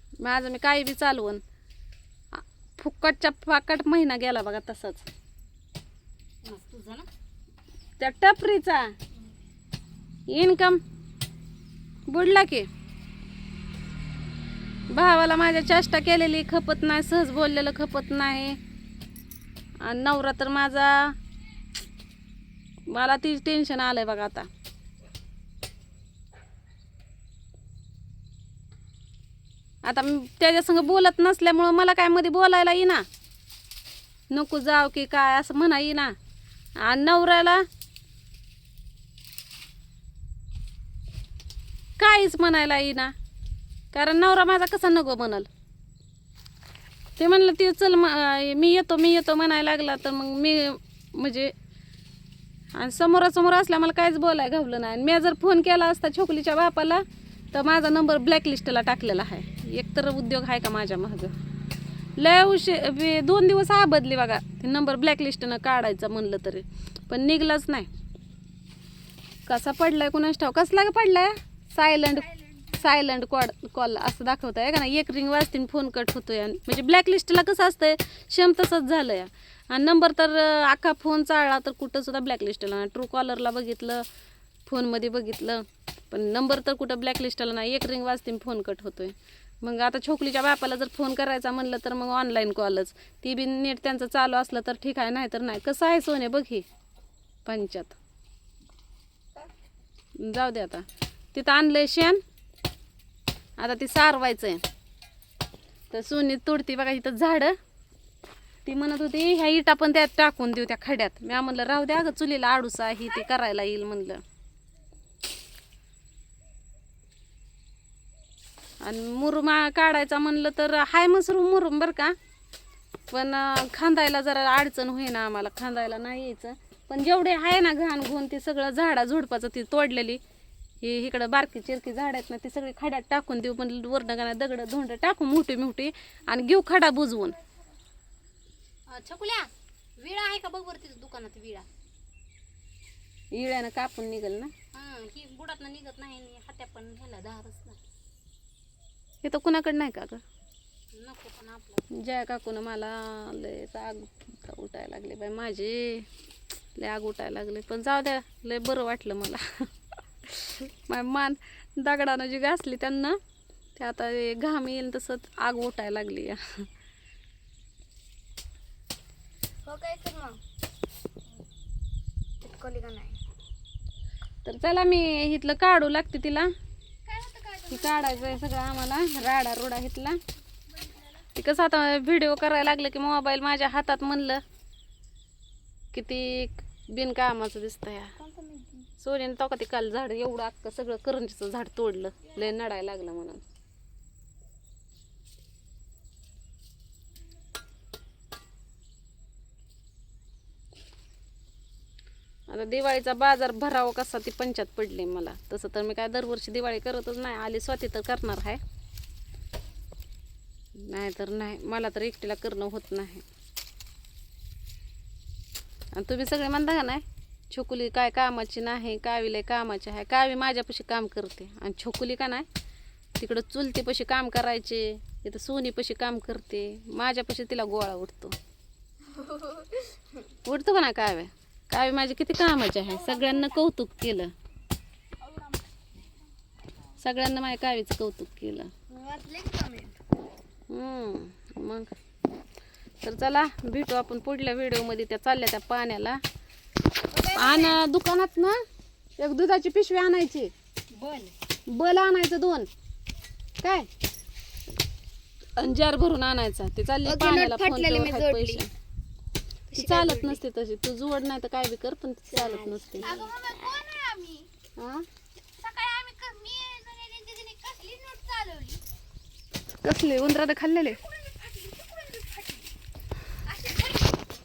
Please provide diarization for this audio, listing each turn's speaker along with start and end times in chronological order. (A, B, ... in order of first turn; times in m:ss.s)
0:00.2-0:01.4 A
0:02.3-0:05.0 A
0:06.4-0:07.1 B
0:08.0-0:08.9 A
0:10.3-0:10.8 A
0:12.1-0:12.7 A
0:14.9-0:18.6 A
0:19.8-0:21.2 A
0:22.9-0:24.5 A
0:29.8-0:33.0 A
0:34.3-0:36.1 A
0:36.8-0:37.6 A
0:42.0-0:43.1 A
0:43.9-0:45.5 A
0:47.2-0:51.5 A
0:52.8-1:01.3 A
1:02.2-1:07.9 A
1:09.5-1:24.0 A
1:24.7-1:36.6 A
1:37.5-1:38.0 A
1:40.2-1:42.2 A
1:43.6-1:44.6 A
1:45.9-1:47.6 A
1:48.6-1:54.2 A
1:58.8-2:02.1 A
2:03.1-2:10.2 A
2:10.8-2:17.4 A
2:18.9-2:21.7 B
2:23.3-2:24.5 A
2:24.8-2:27.8 B
2:29.2-2:30.2 A
2:30.9-2:31.8 B
2:31.9-2:36.1 A
2:36.8-2:39.7 A
2:40.2-2:43.2 A
2:43.8-2:46.4 A
2:49.7-2:50.4 C
2:52.4-2:53.2 C
2:54.4-2:56.5 A
2:57.1-2:58.0 C
2:57.7-3:00.2 A
3:01.4-3:04.4 A
3:05.9-3:08.2 A
3:08.3-3:08.6 C
3:09.0-3:13.4 A
3:22.5-3:28.6 A
3:30.8-3:33.2 A
3:35.9-3:42.5 A
3:43.2-3:48.4 A
3:50.4-3:54.3 A
3:57.0-3:58.7 A
3:58.9-3:59.9 C
3:59.3-3:59.9 B
4:00.7-4:01.9 A
4:03.0-4:06.2 A
4:07.1-4:07.8 C
4:07.3-4:08.6 A
4:09.2-4:10.5 A
4:11.0-4:11.3 C
4:11.7-4:12.7 A
4:13.6-4:13.9 A
4:15.6-4:18.7 A
4:17.1-4:18.6 C
4:19.7-4:20.4 C
4:19.7-4:23.3 A
4:22.4-4:24.0 C
4:23.1-4:24.5 B
4:24.8-4:25.0 A
4:25.6-4:28.8 B
4:29.8-4:31.0 A
4:30.9-4:32.7 C
4:31.1-4:32.7 B
4:33.4-4:34.2 C
4:33.6-4:34.1 B